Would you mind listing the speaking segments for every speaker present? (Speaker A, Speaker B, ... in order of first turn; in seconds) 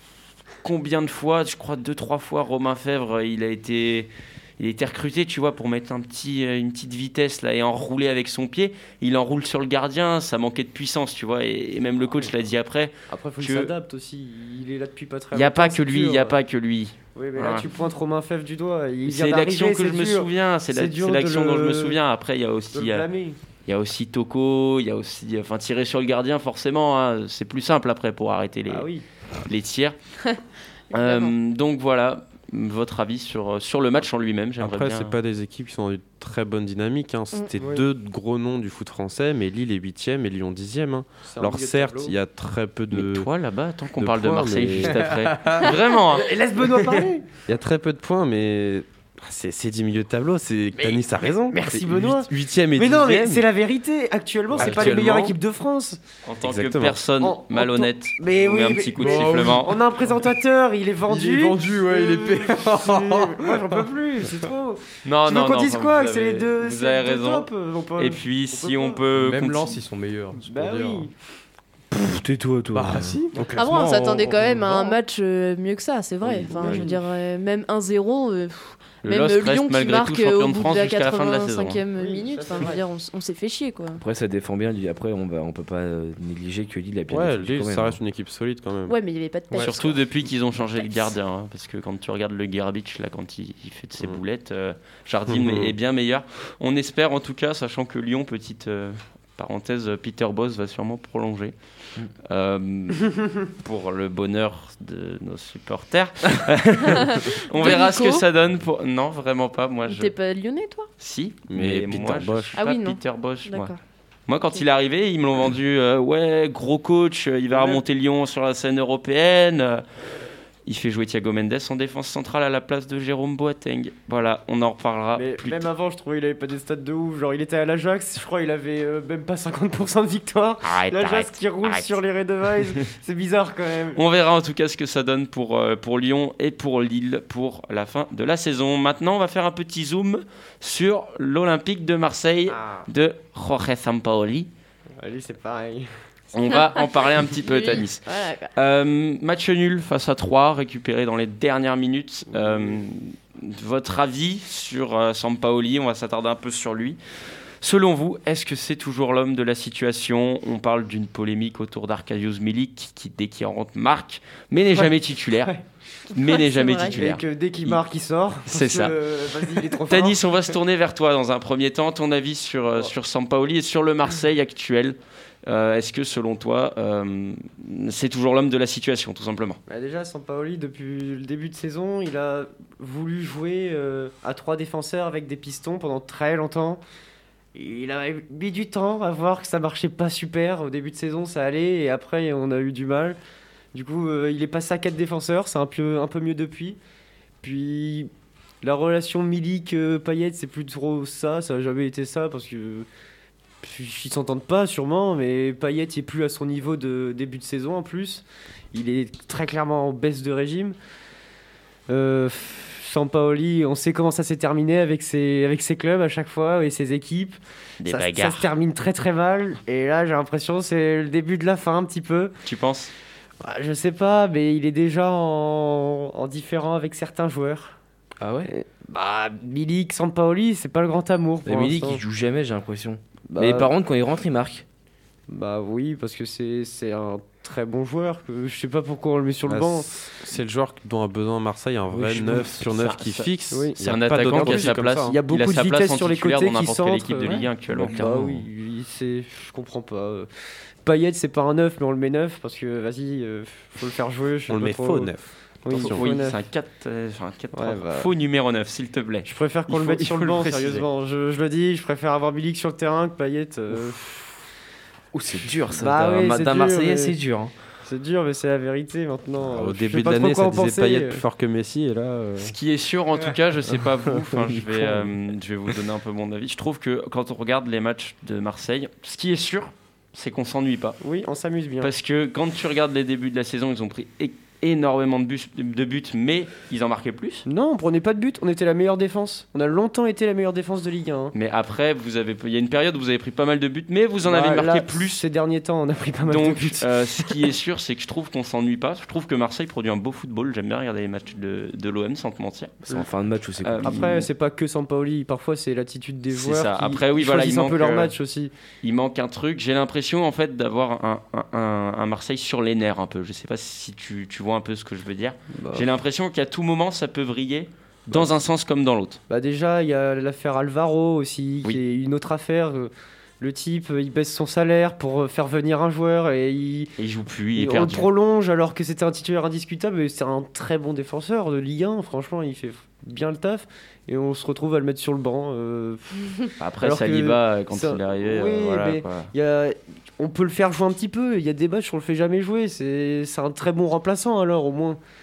Speaker A: 0.6-13.7, 15.3-17.7, 19.0-23.1, 23.6-28.9, 29.4-29.9, 30.9-35.1, 42.9-46.3, 54.5-55.4, 56.2-59.8, 65.0-69.8, 79.0-81.8, 89.6-101.5, 102.3-110.1, 111.0-113.7, 114.3-119.8, 120.7-125.6, 130.6-131.9, 133.9-144.5, 146.3-157.0, 157.6-165.6, 166.1-167.8, 168.5-169.0, 169.7-179.6, 217.8-218.5, 222.4-222.9, 242.6-248.4, 255.7-260.8, 272.4-281.0, 281.8-287.4, 291.3-295.2, 296.2-302.8, 303.6-304.3, 306.3-308.1, 308.8-319.2, 327.0-328.1, 336.6-339.3
Speaker B: 13.1-16.4, 17.1-22.0, 22.7-23.4, 28.7-29.0, 37.6-37.8, 41.3-42.2, 46.1-47.3, 50.8-56.0, 57.2-69.0, 70.4-71.1, 76.6-77.0, 82.0-82.8, 117.5-117.8, 125.1-134.0, 142.5-142.8, 145.0-145.9, 152.3-152.8, 164.7-165.6, 166.8-170.2, 179.7-186.8, 187.5-193.2, 193.7-196.8, 197.4-198.1, 198.6-202.9, 203.6-210.8, 211.9-222.3, 223.4-227.8, 228.5-232.0, 233.3-233.7, 235.3-239.9, 242.0-242.5, 243.5-243.8, 244.3-250.3, 250.8-255.1, 255.6-256.4, 257.5-258.1, 259.2-264.4, 265.7-267.1, 267.8-271.2, 281.0-281.9, 287.5-291.3, 294.2-297.4, 303.8-308.5, 315.6-315.9, 319.3-326.9, 327.6-345.0
Speaker C: 30.9-31.3, 73.5-84.0, 88.9-90.0, 106.9-108.2, 109.9-110.9, 112.5-113.8, 146.8-148.5, 166.2-166.9
Speaker D: 34.6-43.3, 44.0-45.0, 47.5-53.4, 54.5-55.4, 56.4-57.0, 87.1-89.0, 95.3-95.7, 111.5-112.5, 239.5-245.2, 254.5-256.0, 260.2-260.8, 269.4-272.5
Speaker E: 45.1-45.7, 59.0-59.8, 61.1-63.8, 69.2-71.1, 72.7-74.9
Speaker F: 71.9-73.2, 76.3-76.8, 84.0-88.0, 228.2-228.5, 231.4-234.6, 265.1-267.5, 302.9-304.0